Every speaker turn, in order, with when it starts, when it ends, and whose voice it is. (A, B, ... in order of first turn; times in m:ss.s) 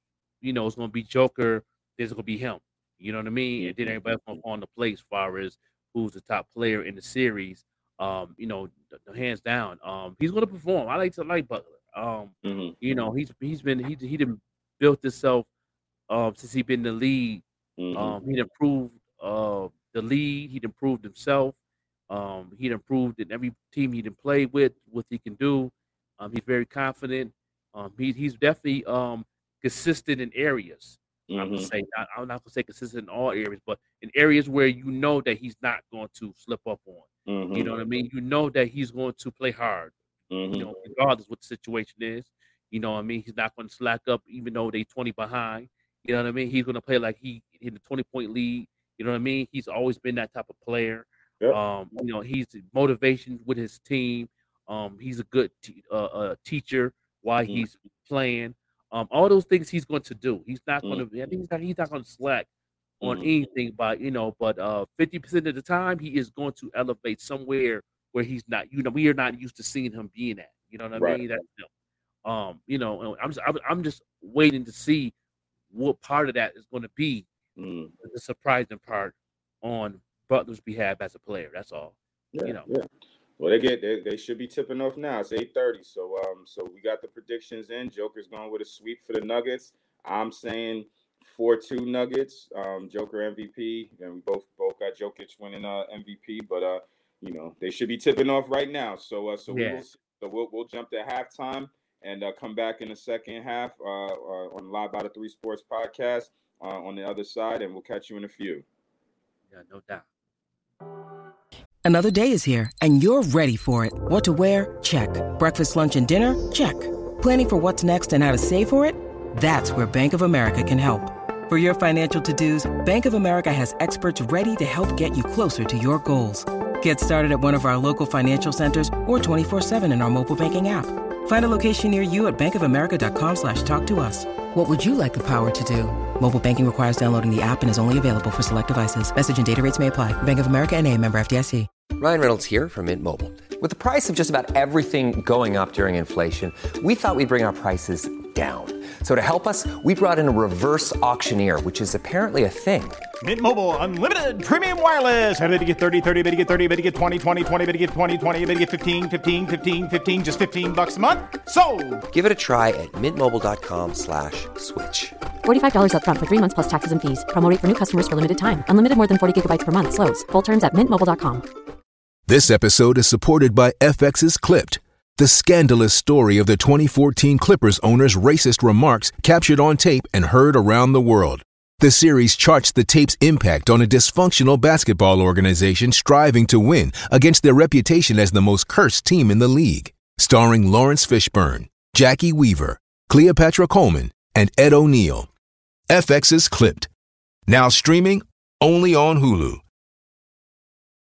0:00.4-0:15.5 A
0:03.6-0:04.4 B
0:12.4-0:12.8 B
0:16.1-0:17.4 A
0:17.8-0:18.2 B
0:17.9-0:21.6 A
0:22.1-0:39.9 A
0:31.3-0:31.7 B
0:37.2-0:37.7 B
0:40.3-0:40.7 B
0:40.5-1:02.5 A
1:03.0-1:03.3 B
1:03.0-1:11.7 A
1:10.9-1:11.2 B
1:12.2-1:15.1 A
1:15.7-1:17.3 A
1:17.6-1:17.9 B
1:18.0-1:22.7 A
1:22.3-1:22.9 B
1:23.4-1:48.6 B
1:39.5-1:39.8 A
1:49.5-1:50.0 A
1:51.8-2:21.7 C
2:22.0-2:33.0 D
2:33.2-2:42.0 E
2:42.1-2:45.2 D
2:45.4-2:51.5 F
2:52.3-3:15.3 G
3:15.9-3:16.9 G
3:17.5-3:19.6 G